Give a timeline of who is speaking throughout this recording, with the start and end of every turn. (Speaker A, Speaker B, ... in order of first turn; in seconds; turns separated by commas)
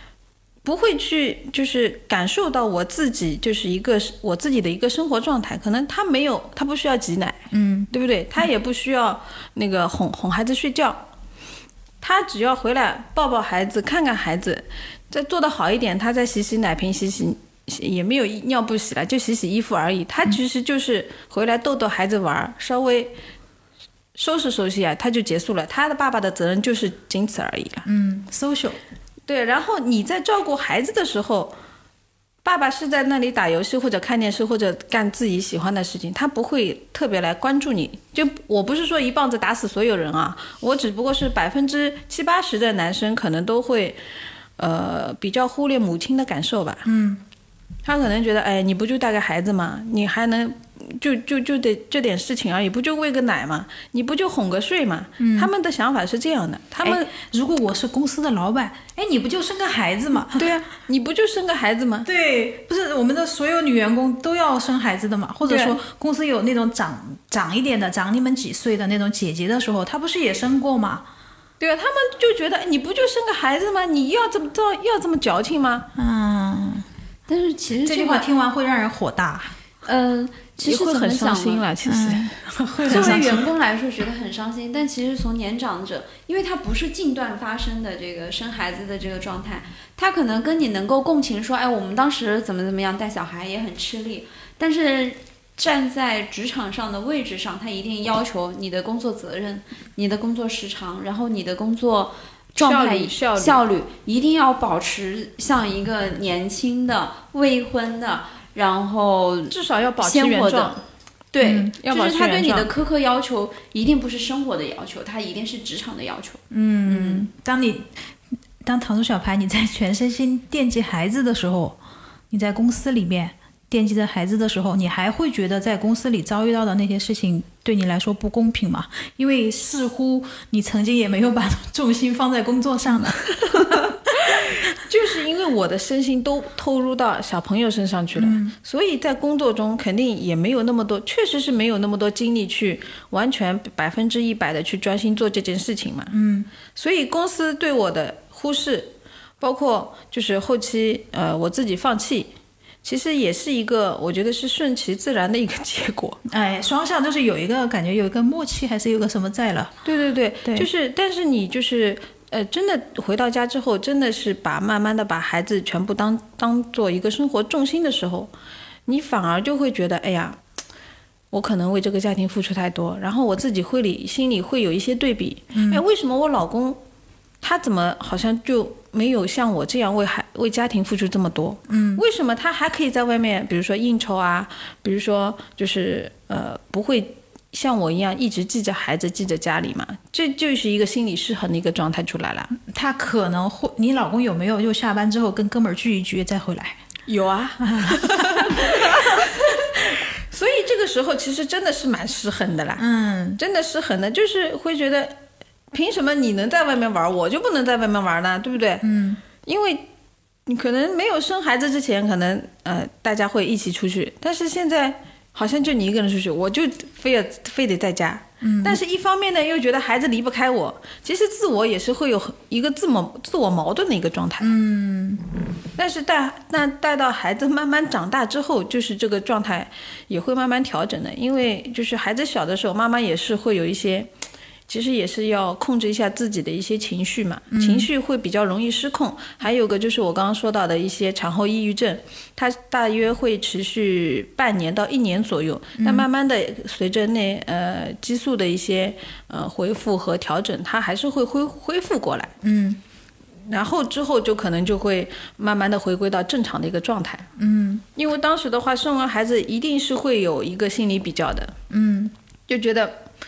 Speaker A: 0.6-11.1, Speaker B: 7.5-7.9, Speaker A: 12.0-23.1, Speaker A: 24.1-27.9, Speaker B: 27.8-28.8, Speaker A: 29.3-31.5, Speaker A: 32.4-44.0, Speaker A: 44.6-46.9, Speaker B: 46.8-47.2, Speaker A: 47.8-57.1, Speaker B: 55.2-55.5, Speaker B: 56.8-60.5, Speaker A: 60.3-62.1, Speaker B: 62.0-71.0, Speaker A: 65.5-65.8, Speaker A: 71.6-75.9, Speaker B: 76.0-76.8, Speaker C: 77.3-78.2, Speaker B: 77.8-79.5, Speaker C: 79.8-81.6, Speaker A: 80.6-83.4, Speaker B: 81.8-83.4, Speaker C: 82.9-110.7, Speaker A: 102.5-103.6, Speaker A: 109.5-110.8, Speaker C: 111.3-117.3, Speaker B: 111.4-111.7, Speaker A: 111.8-112.7, Speaker B: 116.5-118.0, Speaker B: 118.6-121.8, Speaker B: 122.3-134.4, Speaker A: 134.3-146.2, Speaker B: 138.2-138.5, Speaker B: 146.1-146.5, Speaker A: 146.7-152.3, Speaker A: 152.8-156.2, Speaker B: 156.2-159.7, Speaker A: 159.8-168.3, Speaker A: 168.8-170.4, Speaker A: 171.3-176.8, Speaker B: 175.5-175.8, Speaker A: 177.4-192.5, Speaker B: 181.7-182.0, Speaker B: 192.5-196.8, Speaker A: 197.1-202.8, Speaker B: 197.6-199.3, Speaker B: 202.8-203.4, Speaker A: 203.4-205.2, Speaker A: 205.7-208.8, Speaker B: 208.8-209.2, Speaker A: 209.4-209.8, Speaker A: 210.4-224.5, Speaker B: 218.4-218.8, Speaker B: 224.4-225.2, Speaker A: 225.8-234.1, Speaker A: 234.7-252.3, Speaker B: 237.5-237.9, Speaker B: 245.8-246.1, Speaker B: 252.4-252.8, Speaker A: 253.5-257.3, Speaker B: 257.4-257.8, Speaker A: 257.9-261.6, Speaker B: 261.7-262.1, Speaker A: 262.5-263.0